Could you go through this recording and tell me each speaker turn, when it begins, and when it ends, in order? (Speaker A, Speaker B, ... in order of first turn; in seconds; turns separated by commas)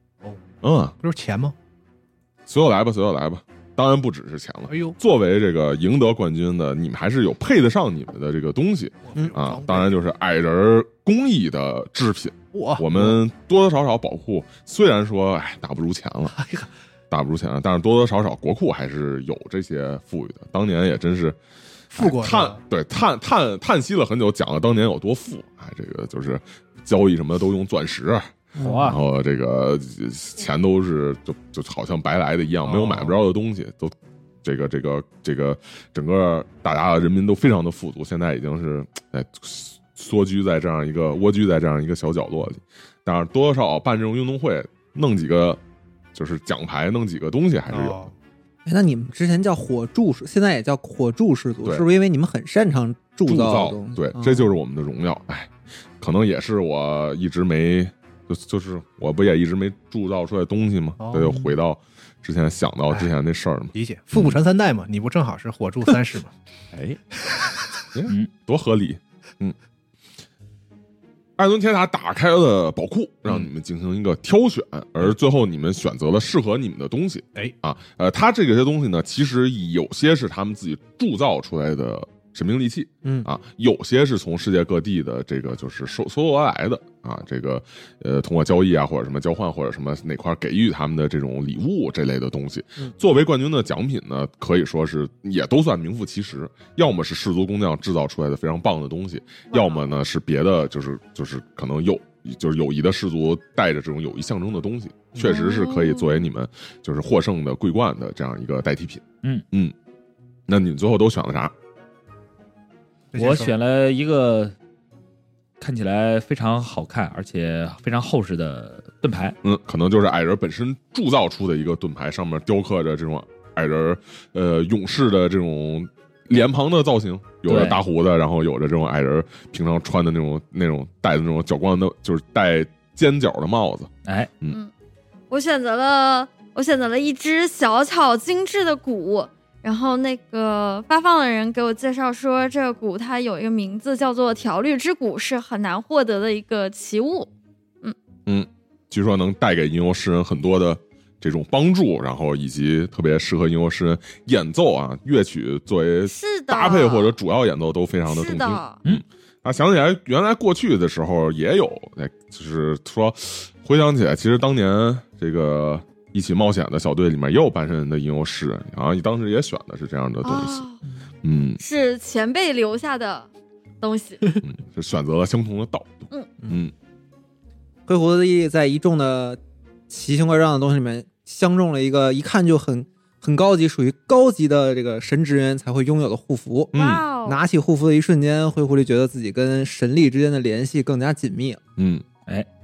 Speaker A: 0.6-0.9, Speaker B: 1.0-1.5, Speaker A: 2.5-16.4, Speaker B: 4.7-5.0, Speaker B: 9.0-9.9, Speaker B: 12.5-13.2, Speaker B: 16.3-16.7, Speaker A: 17.1-21.4, Speaker B: 21.9-22.6, Speaker A: 21.9-45.6, Speaker C: 28.6-29.0, Speaker D: 28.6-29.0, Speaker B: 32.6-33.1, Speaker A: 46.1-48.1, Speaker B: 47.7-48.1, Speaker C: 48.6-54.5, Speaker A: 53.2-64.3, Speaker B: 61.0-61.4, Speaker B: 63.7-66.3, Speaker A: 66.7-67.0, Speaker A: 67.9-69.5, Speaker D: 68.1-68.3, Speaker A: 71.4-109.7, Speaker C: 83.0-83.3, Speaker E: 99.5-99.9, Speaker E: 105.2-106.2, Speaker A: 110.5-111.5, Speaker B: 113.1-113.5, Speaker D: 113.2-114.5, Speaker D: 115.6-119.3, Speaker A: 119.4-134.6, Speaker D: 127.5-127.8, Speaker D: 134.0-134.3, Speaker E: 135.3-147.3, Speaker A: 148.3-170.7, Speaker E: 156.1-157.1, Speaker E: 158.1-158.8, Speaker E: 170.2-170.8, Speaker A: 171.2-171.6, Speaker E: 171.6-173.3, Speaker E: 173.8-174.3, Speaker A: 174.4-176.7, Speaker C: 177.9-186.7, Speaker A: 186.7-187.1, Speaker E: 186.7-187.4, Speaker C: 187.2-191.6, Speaker A: 191.8-192.1